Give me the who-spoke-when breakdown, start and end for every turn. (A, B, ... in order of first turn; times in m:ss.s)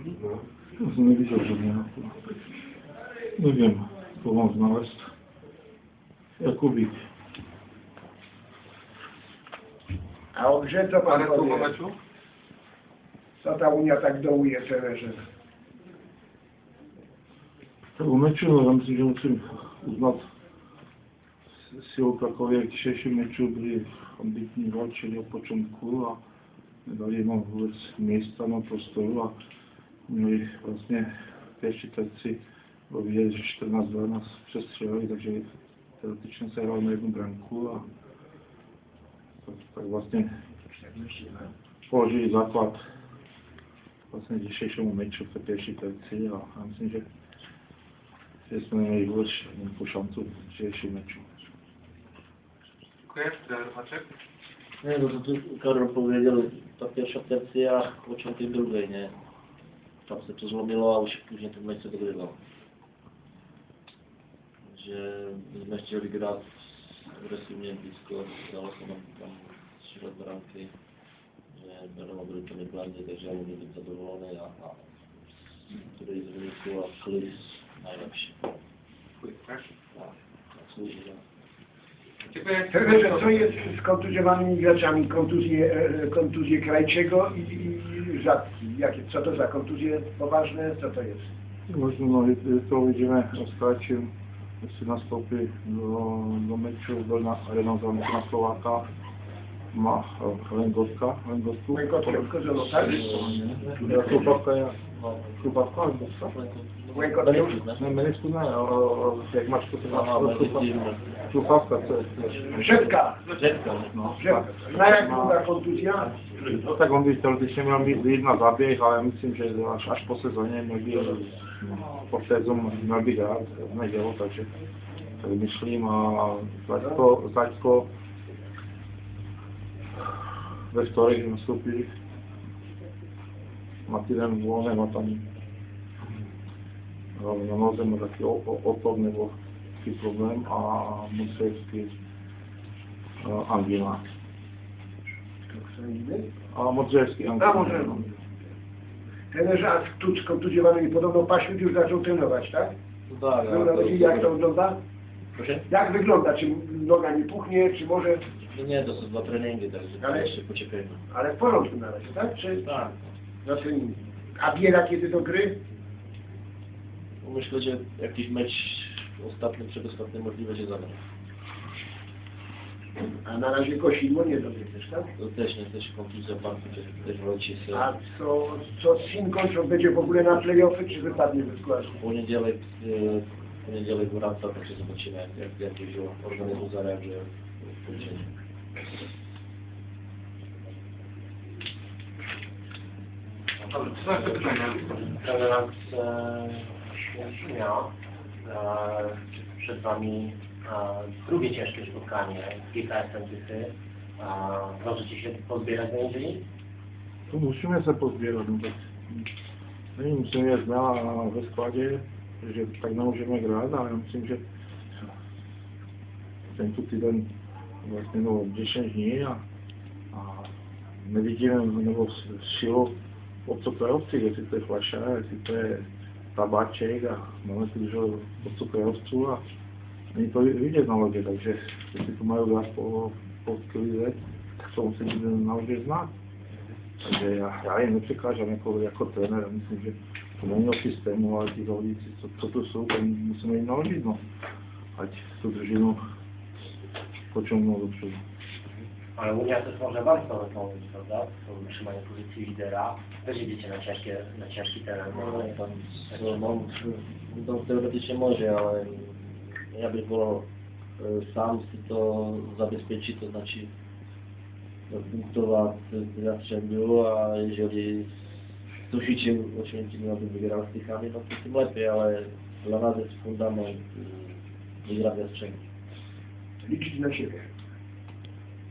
0:00.8-0:02.2 A
0:03.3-0:05.1 A
0:06.4-0:06.9 A
0:10.3-0:11.7 B
0:11.1-0:12.0 C
0:13.4-0:15.2 B
0:18.0-0:20.3 A
0:21.6-0:26.2 A
0:26.8-0:29.3 A
0:30.1-0:35.5 A
0:36.0-0:37.8 A
0:39.4-0:40.3 A
0:40.7-0:41.5 B
0:41.9-0:42.8 A
0:44.1-0:47.0 A
0:48.5-0:51.3 A
0:53.0-0:54.1 C
0:54.8-0:59.1 D
1:00.1-1:02.4 D
1:04.7-1:10.7 D
1:11.6-1:14.9 D
1:15.7-1:18.5 D
1:19.2-1:19.7 C
1:19.9-1:21.2 D
1:22.3-1:23.5 C
1:22.7-1:31.3 B
1:31.7-1:34.1 A
1:34.6-1:38.9 A
1:39.7-1:46.3 A
1:41.7-1:44.1 B
1:43.7-1:44.3 D
1:45.0-1:45.3 D
1:46.3-1:47.8 D
1:46.9-1:47.6 B
1:47.7-1:52.9 A
1:49.9-1:51.1 D
1:52.5-1:53.3 B
1:52.5-1:54.1 D
1:53.9-1:55.4 A
1:54.2-1:56.2 B
1:56.4-2:04.5 A
2:05.2-2:07.9 A
2:10.7-2:11.9 A
2:13.9-2:15.3 A
2:17.2-2:21.9 A
2:23.2-2:24.0 A
2:25.4-2:26.3 B
2:26.5-2:28.1 A
2:27.4-2:28.0 B
2:29.3-2:32.7 B
2:33.1-2:34.4 D
2:33.4-2:34.8 B
2:35.4-2:35.6 D
2:35.7-2:38.2 B
2:38.4-2:41.0 D
2:40.0-2:40.3 B
2:41.1-2:42.7 B
2:42.6-2:43.0 D
2:43.4-2:45.6 B
2:47.2-2:51.0 D
2:53.2-2:55.1 B
2:55.2-2:57.9 D
2:57.7-3:02.0 B
3:02.0-3:08.3 D
3:13.7-3:26.4 E
3:13.7-3:14.8 C
3:27.3-3:29.3 A
3:30.0-3:34.4 A
3:36.5-3:37.3 A
3:37.8-3:39.4 A
3:40.1-3:49.4 A
3:50.1-3:56.1 A
3:57.0-4:04.2 A
4:05.0-4:06.0 A
4:07.3-4:08.2 A
4:09.1-4:16.6 E
4:15.1-4:20.5 D
4:21.0-4:23.7 D
4:24.9-4:28.3 D
4:28.9-4:35.6 D
4:36.6-4:37.5 B